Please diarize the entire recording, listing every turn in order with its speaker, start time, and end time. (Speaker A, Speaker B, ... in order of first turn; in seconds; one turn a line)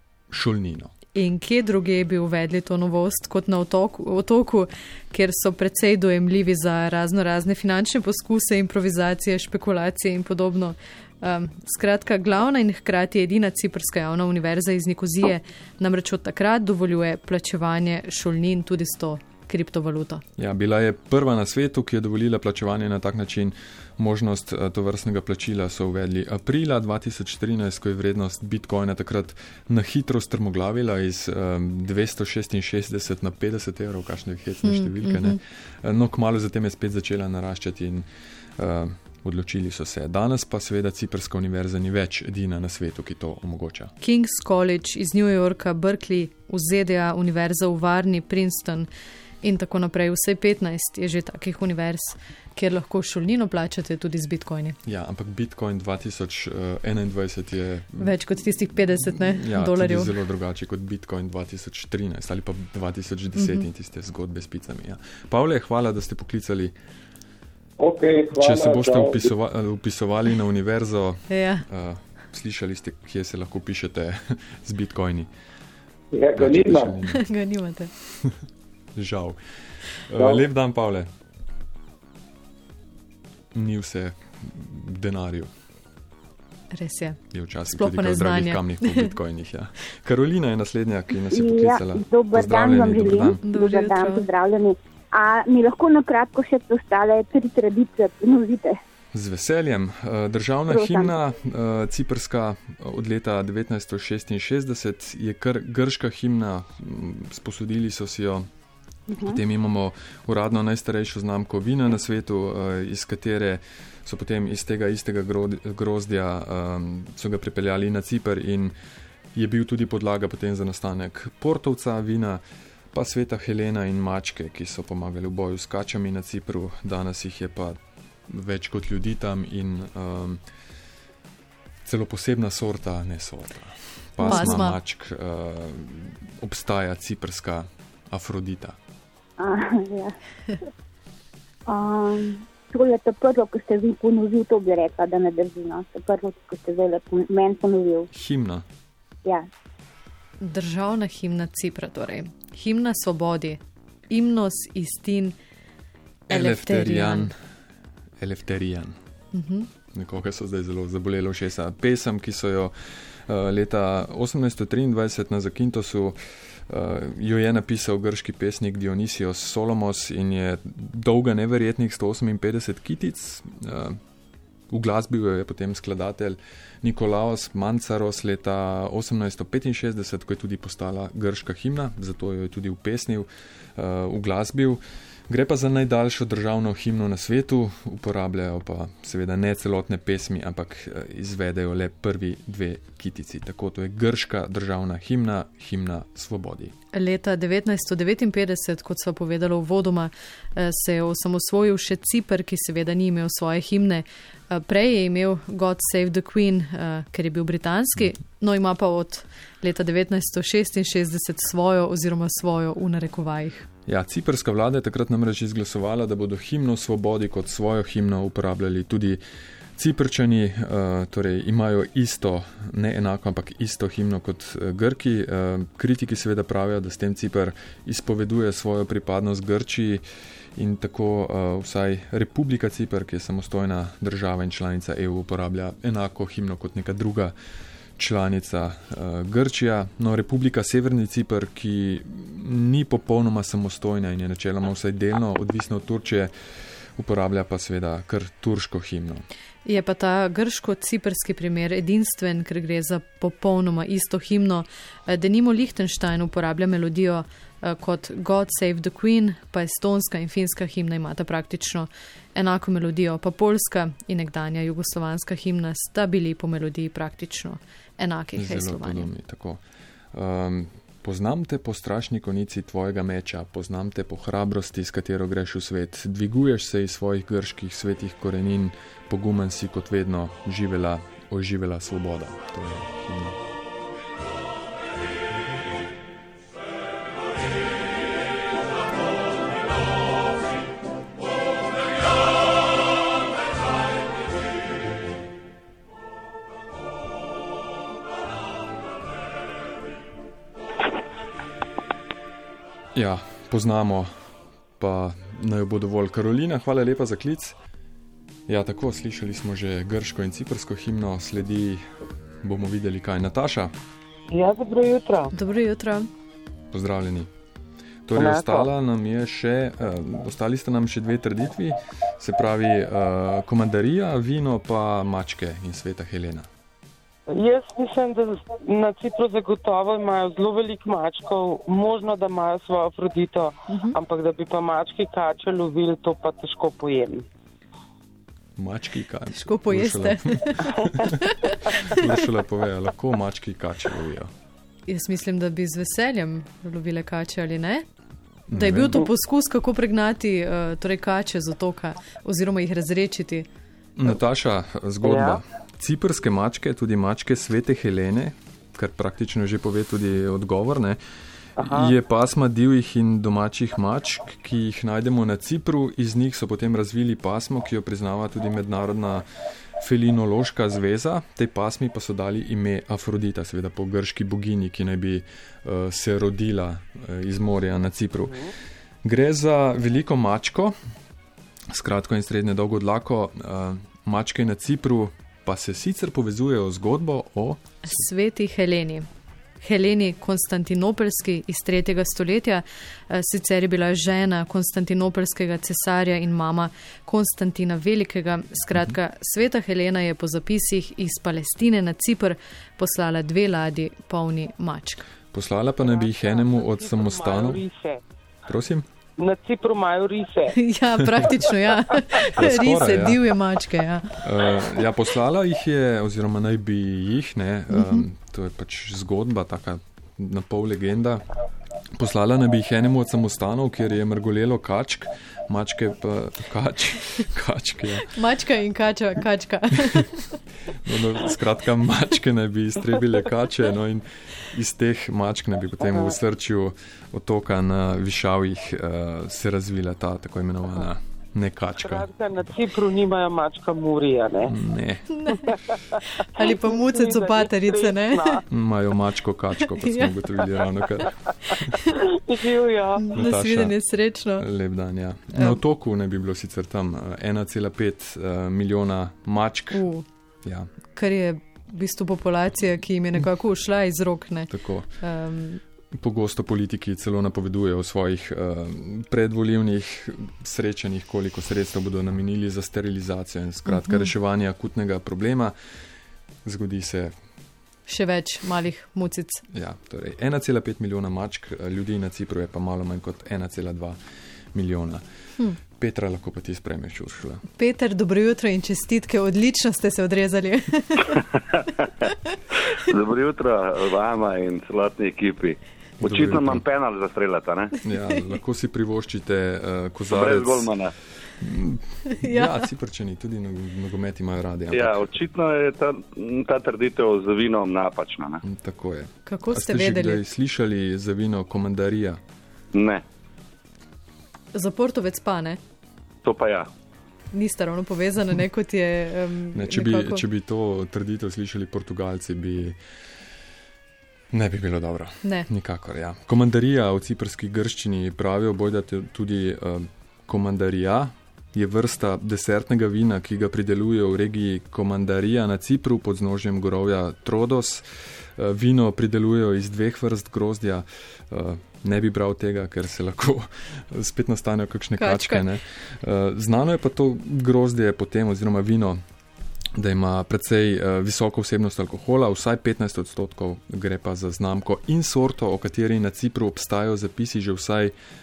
Speaker A: 0.3-0.9
Speaker B: 1.1-20.2
Speaker A: 20.4-38.0
Speaker B: 34.6-35.4
Speaker A: 38.6-43.9
Speaker B: 44.0-48.9
Speaker B: 49.4-54.8
Speaker A: 54.9-58.1
Speaker B: 58.0-60.1
Speaker A: 59.1-66.7
Speaker B: 63.4-63.7
Speaker C: 67.8-69.3
Speaker A: 68.3-75.3
Speaker B: 71.3-71.7
Speaker C: 76.1-77.0
Speaker A: 76.3-77.2
Speaker B: 77.1-77.9
Speaker A: 79.0-79.4
Speaker A: 80.0-81.1
Speaker C: 80.2-80.5
Speaker A: 83.5-85.5
Speaker B: 86.7-87.2
Speaker A: 87.3-93.4
Speaker B: 87.7-89.1
Speaker D: 91.3-98.8
Speaker B: 93.4-94.3
Speaker A: 99.1-108.5
Speaker D: 100.7-101.2
Speaker D: 109.1-109.4
Speaker A: 109.2-118.8
Speaker A: 119.3-122.4
Speaker A: 122.9-127.8
Speaker A: 128.3-130.4
Speaker A: 131.8-138.8
Speaker B: 134.2-134.8
Speaker D: 139.4-140.2
Speaker D: 141.7-148.1
Speaker A: 148.1-148.6
Speaker B: 150.4-155.3
Speaker B: 156.3-157.3
Speaker A: 156.3-157.3
Speaker A: 158.2-159.0
Speaker B: 159.3-159.7
Speaker A: 159.9-162.7
Speaker A: 163.3-166.2
Speaker A: 166.7-174.0
Speaker A: 174.7-196.7
Speaker B: 196.9-213.7
Speaker A: 213.9-219.2
Speaker A: 219.8-230.0
Speaker A: 230.6-237.3
Speaker A: 238.0-246.3
Speaker A: 247.0-249.2
Speaker B: 249.7-269.1
Speaker A: 268.4-269.6
Speaker A: 270.1-283.4
Speaker A: 302.9-304.1
Speaker A: 304.8-307.6
Speaker A: 308.5-311.8
Speaker A: 312.4-313.7
Speaker E: 314.3-315.3
Speaker B: 315.3-316.1
Speaker A: 316.7-317.3
Speaker A: 318.1-326.5
Speaker E: 318.1-318.7
Speaker E: 327.3-337.3
Speaker B: 333.7-334.0
Speaker A: 338.6-341.2
Speaker B: 339.3-342.0
Speaker A: 341.8-344.3
Speaker B: 344.9-347.8
Speaker A: 348.5-349.0
Speaker B: 348.5-353.5
Speaker A: 354.0-361.0
Speaker E: 355.0-355.4
Speaker E: 361.6-361.9
Speaker A: 361.6-369.2
Speaker A: 369.8-378.4
Speaker E: 378.2-378.5
Speaker A: 379.0-380.8
Speaker A: 381.7-388.0
Speaker B: 387.9-389.1
Speaker B: 389.6-405.1
Speaker A: 405.3-407.6
Speaker E: 405.8-408.0
Speaker A: 408.5-408.9
Speaker E: 409.2-410.5
Speaker B: 410.5-414.2
Speaker A: 412.3-413.2
Speaker A: 414.2-421.2
Speaker B: 417.7-418.0
Speaker A: 422.0-428.1
Speaker B: 428.0-430.4
Speaker A: 430.9-442.5
Speaker E: 435.9-436.1
Speaker E: 441.8-444.6
Speaker A: 444.4-445.1
Speaker B: 445.1-448.4
Speaker E: 445.3-445.6
Speaker E: 446.4-448.4
Speaker A: 448.5-451.8
Speaker B: 449.8-450.1
Speaker E: 452.2-453.2
Speaker B: 453.0-454.4
Speaker A: 453.1-453.8
Speaker A: 454.3-459.9
Speaker B: 455.3-455.6
Speaker B: 459.7-460.1
Speaker A: 460.4-460.7
Speaker B: 460.9-465.6
Speaker A: 464.5-464.9
Speaker A: 466.0-475.5
Speaker B: 473.7-474.1
Speaker A: 476.4-477.1
Speaker B: 477.9-479.4
Speaker A: 479.5-484.0
Speaker A: 484.5-485.0
Speaker A: 485.8-487.4
Speaker B: 487.6-491.2
Speaker F: 493.0-497.7
Speaker A: 496.0-496.6
Speaker A: 497.8-500.7
Speaker F: 500.1-500.9
Speaker A: 501.4-505.1
Speaker B: 502.2-502.7
Speaker F: 504.8-508.3
Speaker A: 508.4-512.2
Speaker B: 509.3-510.2
Speaker F: 512.8-513.0
Speaker B: 514.5-515.6
Speaker F: 516.2-516.7
Speaker B: 517.3-520.2
Speaker A: 519.5-522.8
Speaker A: 524.3-549.0
Speaker B: 545.0-545.5
Speaker A: 549.8-557.9